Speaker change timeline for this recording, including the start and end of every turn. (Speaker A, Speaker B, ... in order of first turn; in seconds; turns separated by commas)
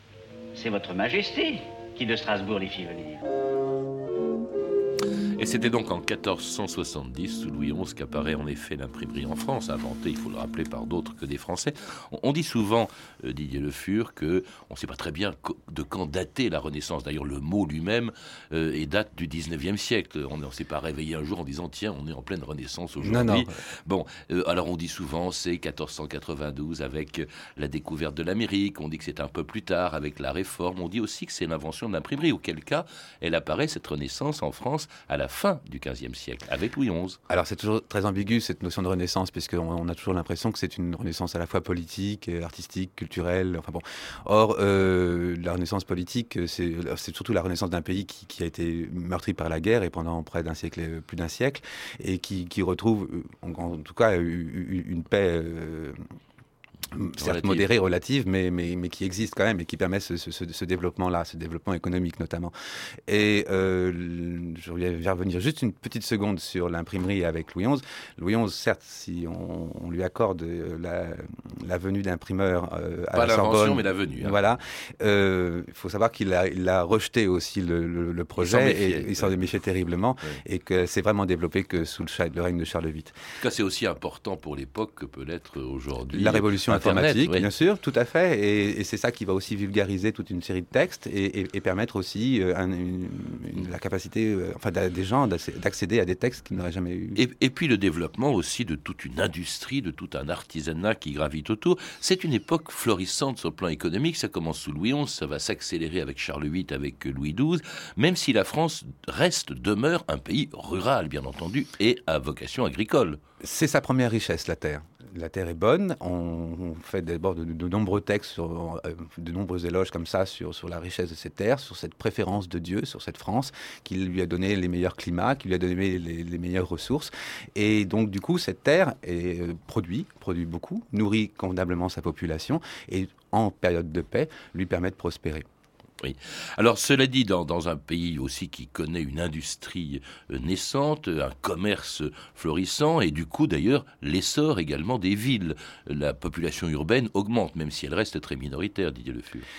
Speaker A: 0.5-3.2, Speaker B: 5.4-37.2, Speaker C: 23.0-23.5, Speaker C: 37.3-56.0, Speaker C: 56.9-62.5, Speaker B: 57.2-57.7, Speaker C: 63.1-83.2, Speaker B: 73.1-74.4, Speaker B: 78.4-79.4, Speaker B: 83.4-87.5, Speaker C: 86.1-97.2, Speaker B: 97.2-113.2, Speaker C: 113.4-135.4, Speaker B: 136.0-149.5